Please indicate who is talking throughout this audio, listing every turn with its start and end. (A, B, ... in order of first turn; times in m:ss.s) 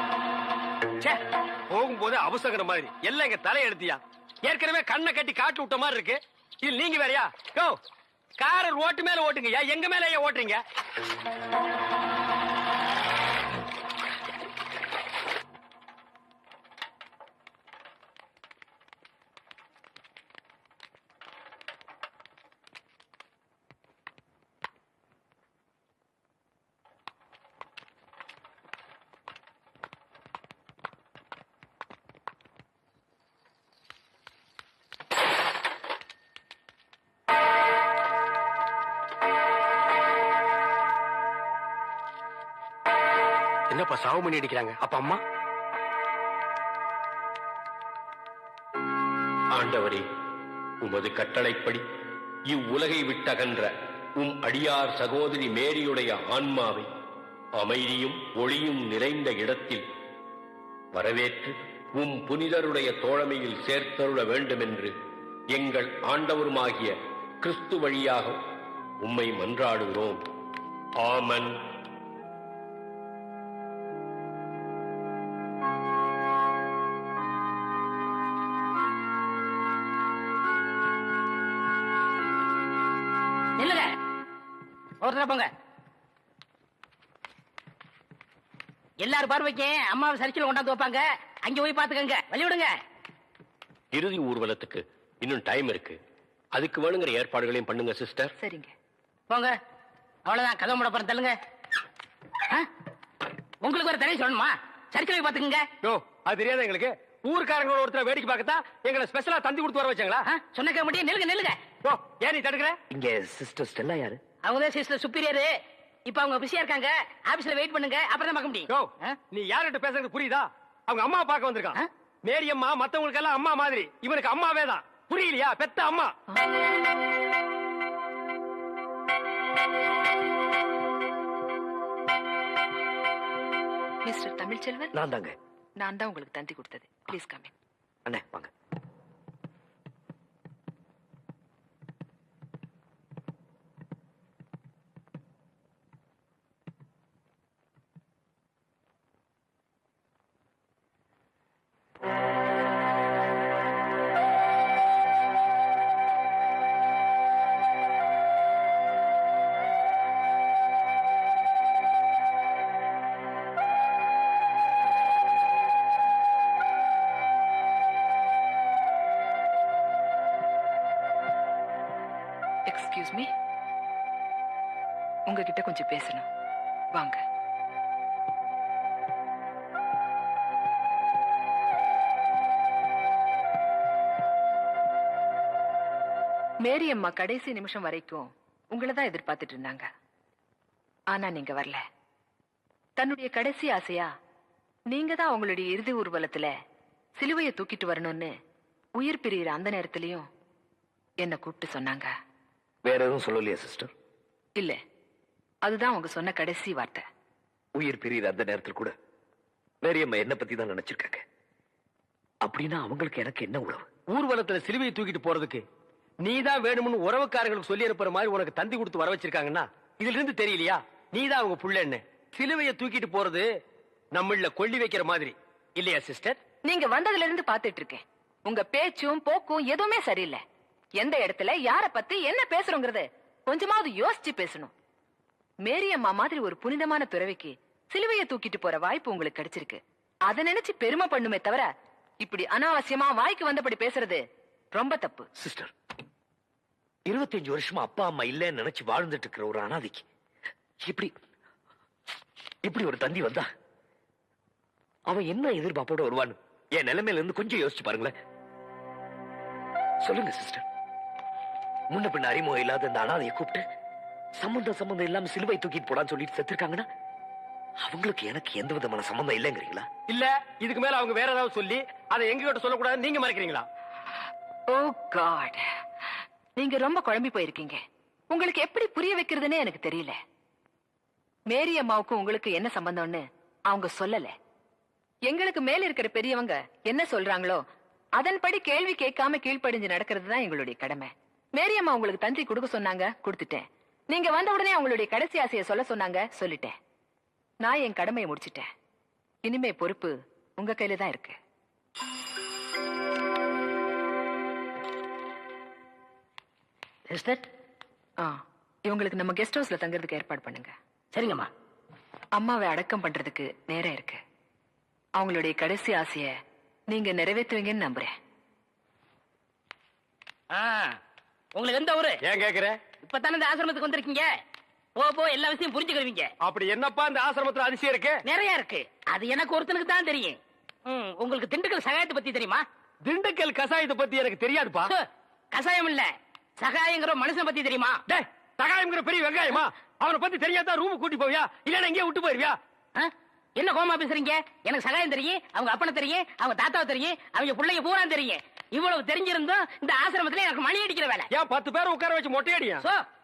0:01.7-0:07.8 A
0:08.4-0:10.6 A
0:43.7-0:45.2 A
0:49.5-0:50.0 B
0:50.8-0:51.8 B
0:52.5-0:56.9 B
0:57.6-0:59.8 B
1:00.9-1:04.9 B
1:05.5-1:08.4 B
1:09.0-1:10.2 B
1:11.0-1:11.6 B
1:23.6-1:23.9 C
1:25.0-1:25.5 C
1:29.0-1:32.7 C
1:33.9-1:36.0 B
1:36.5-1:38.3 B
1:38.4-1:38.7 D
1:39.3-1:39.6 C
1:40.2-1:41.4 C
1:43.6-1:45.7 C
1:45.8-1:50.2 A
1:50.3-1:51.6 C
1:51.8-1:52.8 A
1:52.9-1:54.2 E
1:54.4-1:55.5 C
1:56.1-1:59.2 C
1:58.7-2:06.1 A
2:14.0-2:14.9 D
2:14.9-2:15.4 E
2:15.8-2:17.5 D
2:18.1-2:18.5 E
2:52.7-2:53.3 D
2:55.3-2:56.2 D
2:56.9-2:57.2 D
3:06.6-3:09.9 D
3:11.1-3:11.8 D
3:13.0-3:14.1 D
3:14.9-3:16.5 D
3:17.2-3:18.3 D
3:19.0-3:20.3 D
3:21.2-3:22.1 D
3:22.8-3:23.9 E
3:25.6-3:27.0 D
3:27.8-3:28.9 E
3:29.8-3:31.2 E
3:32.4-3:33.9 E
3:34.1-3:35.6 A
3:36.2-3:43.5 A
3:44.1-3:46.4 A
3:46.6-3:50.4 D
3:51.0-3:54.7 D
3:55.6-4:05.3 D
4:05.4-4:05.7 E
4:07.1-4:10.0 E
4:10.8-4:11.1 E
4:12.6-4:13.5 E
4:15.1-4:18.1 E
4:20.0-4:20.6 E
4:21.9-4:23.6 E
4:24.4-4:26.9 E
4:27.8-4:29.9 E
4:30.1-4:33.7 A
4:34.7-4:35.7 D
4:36.6-4:40.2 D
4:41.5-4:44.4 D
4:45.3-4:47.6 D
4:48.2-4:56.8 D
4:57.6-4:58.7 D
4:59.4-5:01.4 D
5:07.1-5:07.5 C
5:08.2-5:10.7 D
5:11.1-5:11.5 C
5:12.4-5:14.2 D
5:15.2-5:16.4 D
5:16.9-5:18.1 D
5:20.5-5:21.0 C
5:21.6-5:22.2 C
5:22.2-5:22.8 A
5:23.0-5:24.3 C
5:25.0-5:26.3 C
5:26.4-5:28.2 A
5:28.2-5:32.6 C
5:33.0-5:34.9 A
5:34.9-5:38.0 C
5:38.1-5:42.6 A
5:43.0-5:51.3 C
5:51.3-5:52.8 A
5:52.8-5:53.1 C